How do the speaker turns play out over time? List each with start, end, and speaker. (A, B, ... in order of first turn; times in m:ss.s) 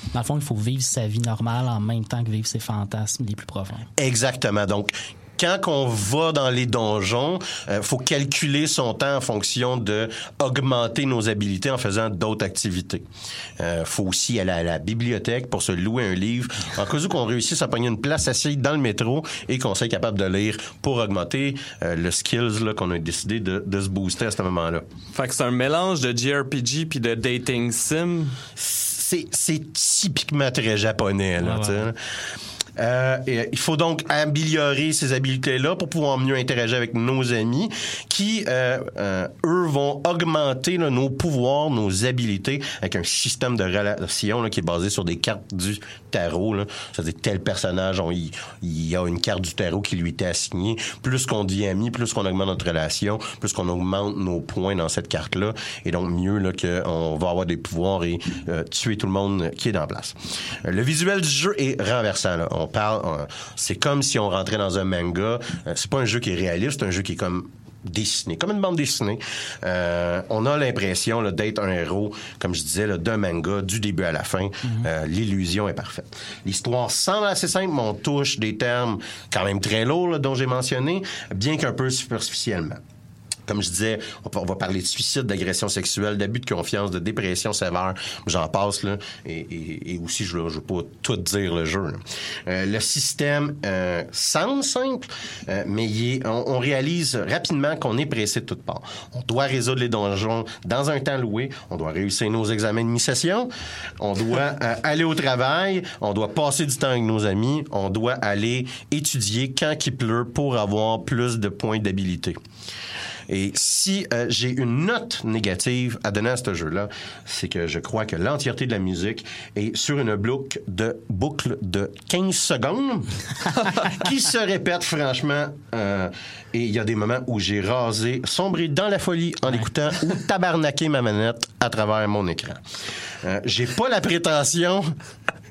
0:00.1-0:03.9 A
0:04.0-0:13.0 B
0:13.6-0:24.8 B
0:25.1-0:28.4 C
0:28.6-0:32.0 B
0:31.4-0:31.8 A
0:32.8-1:22.8 B
1:23.5-1:52.4 B
1:53.3-2:12.6 B
2:13.2-2:14.9 B